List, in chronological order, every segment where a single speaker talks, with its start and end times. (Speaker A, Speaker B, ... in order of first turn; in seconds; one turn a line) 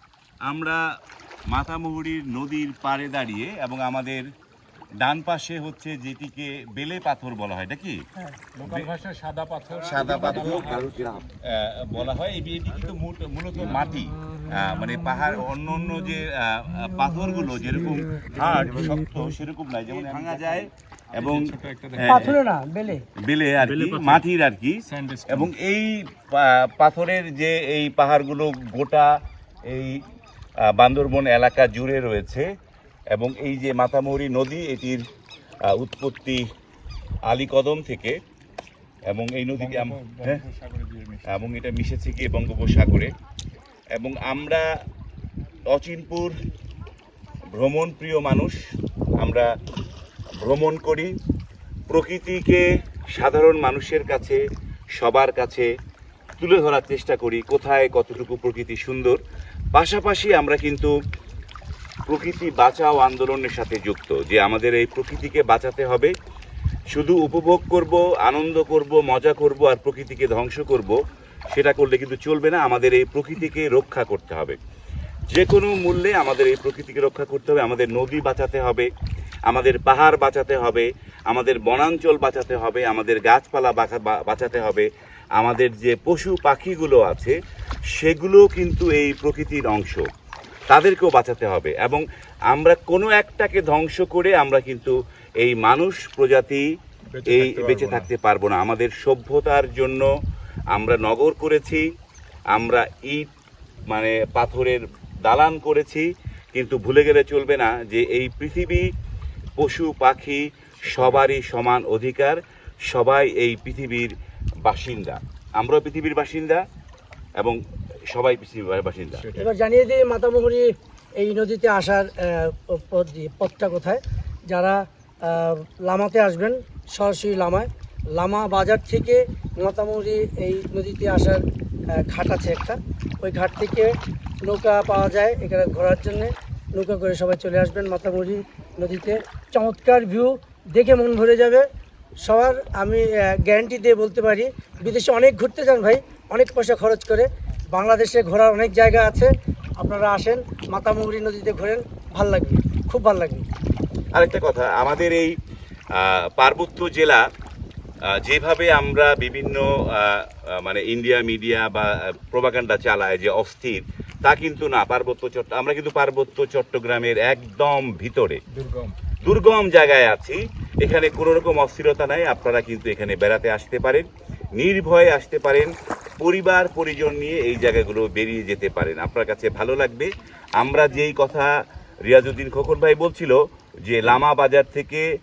Speaker A: 0.4-0.8
Speaker A: 1.5-4.3
Speaker A: 5.0-8.0
Speaker B: 8.5-11.0
Speaker A: 8.6-8.9
Speaker A: 9.8-22.3
Speaker B: 21.1-22.4
Speaker C: 22.0-23.0
Speaker A: 23.2-30.0
Speaker B: 23.6-24.2
Speaker B: 24.9-25.5
Speaker A: 30.6-32.5
Speaker A: 33.1-35.0
Speaker A: 35.6-36.4
Speaker A: 37.2-38.2
Speaker A: 39.1-40.4
Speaker B: 39.6-41.4
Speaker A: 41.2-43.1
Speaker A: 43.9-44.7
Speaker A: 45.7-46.4
Speaker A: 47.5-48.6
Speaker A: 49.2-49.5
Speaker A: 50.4-51.1
Speaker A: 51.9-52.6
Speaker A: 53.1-54.4
Speaker A: 55.0-55.7
Speaker A: 56.4-59.2
Speaker A: 59.7-60.9
Speaker A: 62.1-66.1
Speaker A: 66.9-71.0
Speaker A: 71.5-74.6
Speaker A: 75.3-78.9
Speaker A: 79.5-87.3
Speaker A: 87.9-90.1
Speaker A: 90.7-96.7
Speaker B: 97.1-98.1
Speaker A: 97.2-100.1
Speaker A: 100.7-101.8
Speaker A: 102.5-103.3
Speaker A: 103.9-108.9
Speaker A: 109.6-116.6
Speaker B: 110.8-111.3
Speaker A: 118.1-119.3
Speaker B: 119.1-119.5
Speaker C: 119.3-141.7
Speaker C: 142.2-153.4
Speaker A: 154.1-155.3
Speaker A: 155.9-157.2
Speaker A: 158.1-168.4
Speaker B: 168.5-168.9
Speaker A: 169.2-181.5
Speaker A: 182.0-185.1